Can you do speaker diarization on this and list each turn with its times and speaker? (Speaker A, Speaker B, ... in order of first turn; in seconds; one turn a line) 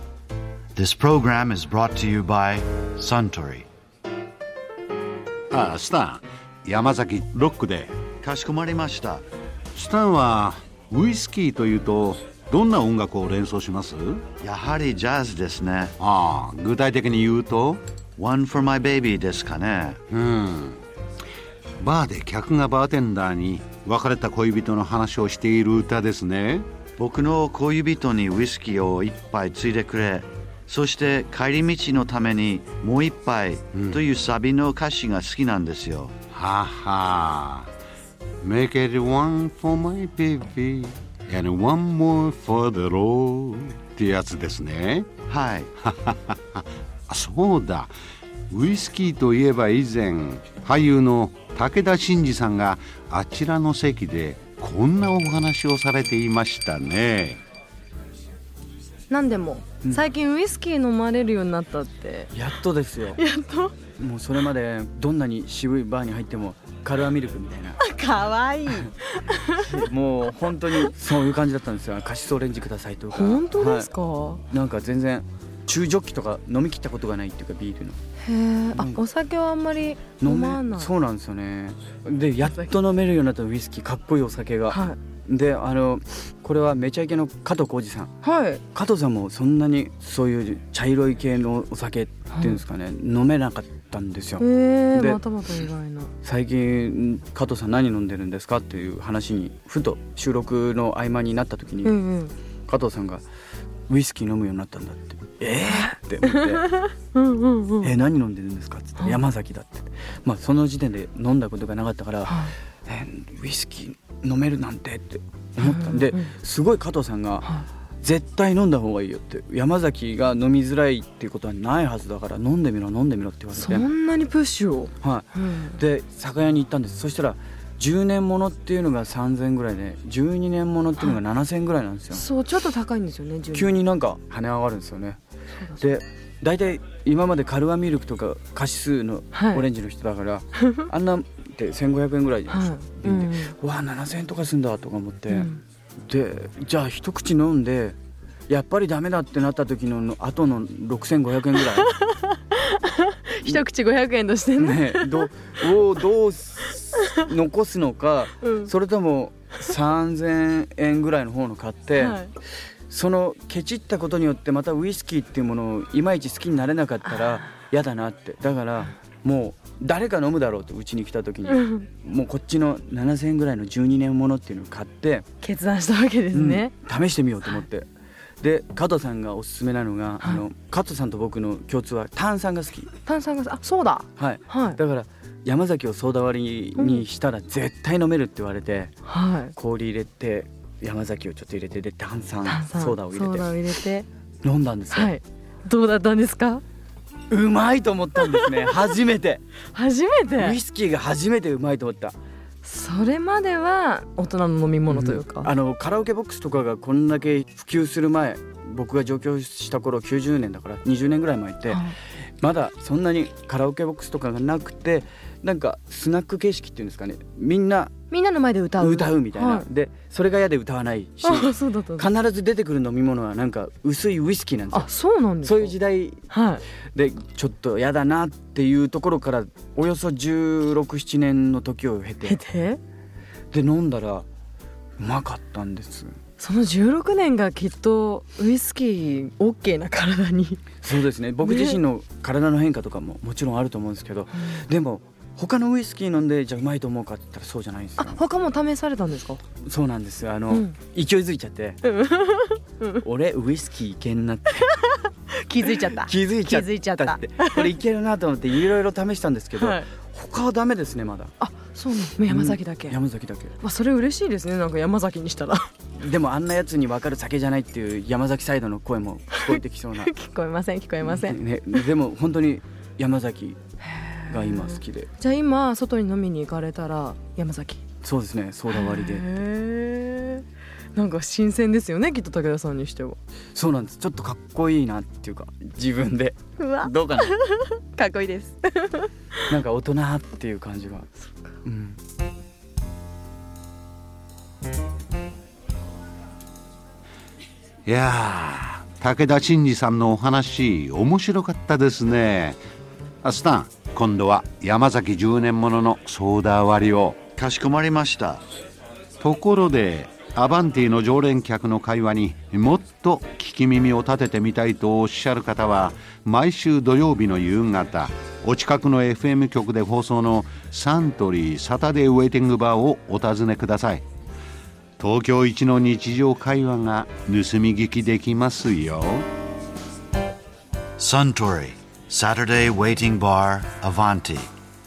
Speaker A: 0.8-3.7
Speaker B: 5.5-7.9
Speaker A: 8.2-9.2
Speaker B: 9.8-14.2
Speaker A: 14.4-15.9
Speaker B: 16.0-17.8
Speaker A: 18.2-20.0
Speaker B: 20.1-20.8
Speaker B: 21.8-26.7
Speaker A: 27.0-36.2
Speaker B: 33.7-34.0
Speaker B: 36.3-37.7
Speaker B: 38.4-45.1
Speaker A: 45.3-45.7
Speaker B: 45.8-47.9
Speaker B: 48.5-57.4
Speaker C: 59.1-62.3
Speaker D: 62.3-63.2
Speaker C: 63.2-63.7
Speaker D: 64.0-67.8
Speaker C: 67.8-69.8
Speaker D: 69.5-73.9
Speaker C: 73.1-74.4
Speaker D: 74.5-78.0
Speaker C: 78.2-80.9
Speaker D: 78.7-79.0
Speaker D: 80.2-88.1
Speaker C: 84.7-85.0
Speaker C: 88.2-88.6
Speaker D: 88.7-95.2
Speaker C: 92.3-92.6
Speaker C: 94.4-96.1
Speaker D: 96.2-101.9
Speaker C: 101.8-102.3
Speaker D: 102.7-103.2
Speaker D: 103.9-106.7
Speaker C: 106.3-107.9
Speaker D: 107.8-117.5
Speaker C: 112.3-112.5
Speaker C: 115.6-116.3
Speaker D: 118.0-123.9
Speaker C: 123.5-125.8
Speaker D: 125.0-132.2
Speaker C: 132.1-133.8
Speaker D: 133.5-135.2
Speaker D: 135.8-145.5
Speaker C: 139.3-139.6
Speaker C: 142.5-143.6
Speaker C: 145.3-145.6
Speaker D: 146.1-148.0
Speaker D: 148.5-152.0
Speaker C: 152.1-155.3
Speaker D: 154.6-162.2
Speaker C: 158.4-158.7
Speaker C: 162.0-162.3
Speaker D: 162.9-175.3
Speaker C: 175.4-176.7
Speaker D: 176.3-177.9
Speaker D: 178.4-182.9
Speaker C: 183.1-184.8
Speaker D: 184.2-188.9
Speaker C: 186.8-187.0
Speaker C: 189.1-189.5
Speaker D: 189.5-193.5
Speaker C: 192.4-194.1
Speaker D: 194.4-195.1
Speaker C: 194.9-196.6
Speaker D: 197.3-199.4
Speaker C: 198.2-198.7
Speaker C: 199.7-200.6
Speaker D: 200.3-202.2
Speaker C: 202.6-205.5
Speaker D: 204.9-211.8
Speaker D: 212.4-217.9
Speaker C: 218.1-219.7
Speaker D: 218.8-224.9
Speaker C: 221.2-222.1
Speaker C: 224.7-225.8
Speaker D: 225.4-226.2
Speaker C: 226.3-226.6
Speaker D: 226.9-232.4
Speaker C: 232.2-232.8
Speaker D: 233.5-234.3
Speaker D: 235.0-236.2
Speaker C: 236.4-240.8
Speaker D: 240.8-248.2
Speaker C: 241.4-241.8
Speaker C: 244.4-244.6
Speaker C: 248.0-249.4
Speaker D: 249.6-251.8
Speaker C: 251.8-253.0
Speaker D: 253.0-254.8
Speaker C: 254.8-257.7
Speaker D: 255.8-261.3
Speaker C: 259.6-259.9
Speaker C: 261.4-263.0
Speaker D: 262.3-263.5
Speaker C: 263.6-265.7
Speaker D: 266.0-270.1
Speaker C: 269.3-271.4
Speaker D: 271.0-273.6
Speaker C: 273.9-277.8
Speaker D: 274.3-275.1
Speaker D: 278.0-279.3
Speaker C: 278.7-283.2
Speaker D: 283.5-287.4
Speaker C: 286.6-289.3
Speaker D: 289.5-291.1
Speaker D: 291.6-292.0
Speaker B: 297.9-302.6
Speaker B: 303.2-307.2
Speaker A: 307.4-308.4
Speaker B: 309.2-324.0
Speaker B: 325.0-329.3
Speaker A: 331.0-334.5